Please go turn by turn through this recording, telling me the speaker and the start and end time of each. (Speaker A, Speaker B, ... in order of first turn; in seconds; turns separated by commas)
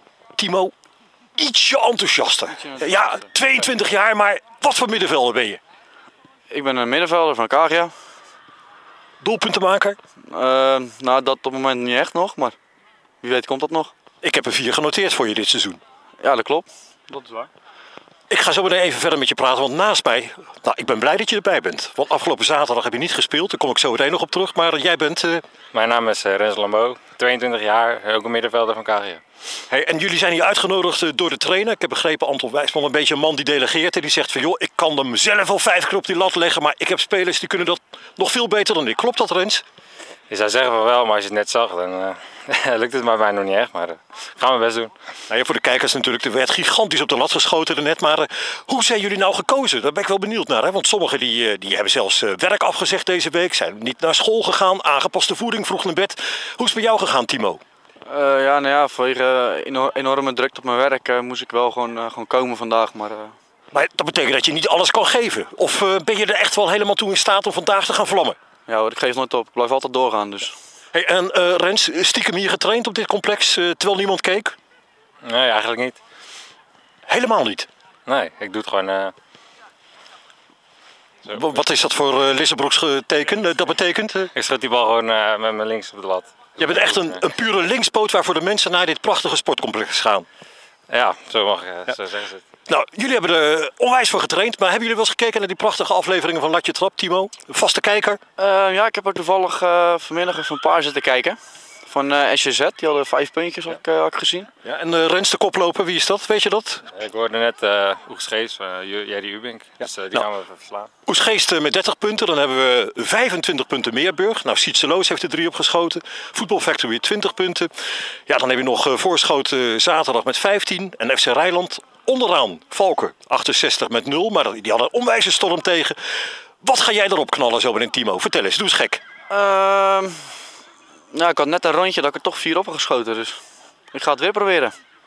Speaker A: 0.4-0.7, Speaker A: 1.4-5.6, Speaker B: 2.5-3.1, Speaker B: 6.5-7.9, Speaker A: 9.2-10.0, Speaker B: 10.3-12.6, Speaker B: 13.2-13.9, Speaker A: 14.2-15.8, Speaker B: 16.2-17.5, Speaker A: 18.3-25.4, Speaker C: 25.7-29.2, Speaker A: 29.7-39.6, Speaker C: 40.3-44.9, Speaker A: 45.3-57.6, Speaker B: 58.1-63.3, Speaker A: 63.7-68.4, Speaker B: 68.7-70.5, Speaker A: 70.9-74.5, Speaker C: 75.2-76.0, Speaker A: 77.1-77.7, Speaker C: 78.0-79.1, Speaker A: 81.2-84.3, Speaker C: 84.3-87.2, Speaker A: 86.6-90.2, Speaker C: 90.9-92.4, Speaker A: 92.7-98.2, Speaker B: 98.4-104.5, Speaker A: 104.6-106.9, Speaker C: 106.9-110.9, Speaker A: 111.0-129.0, Speaker B: 129.3-130.4, Speaker B: 131.1-133.4, Speaker B: 133.9-134.7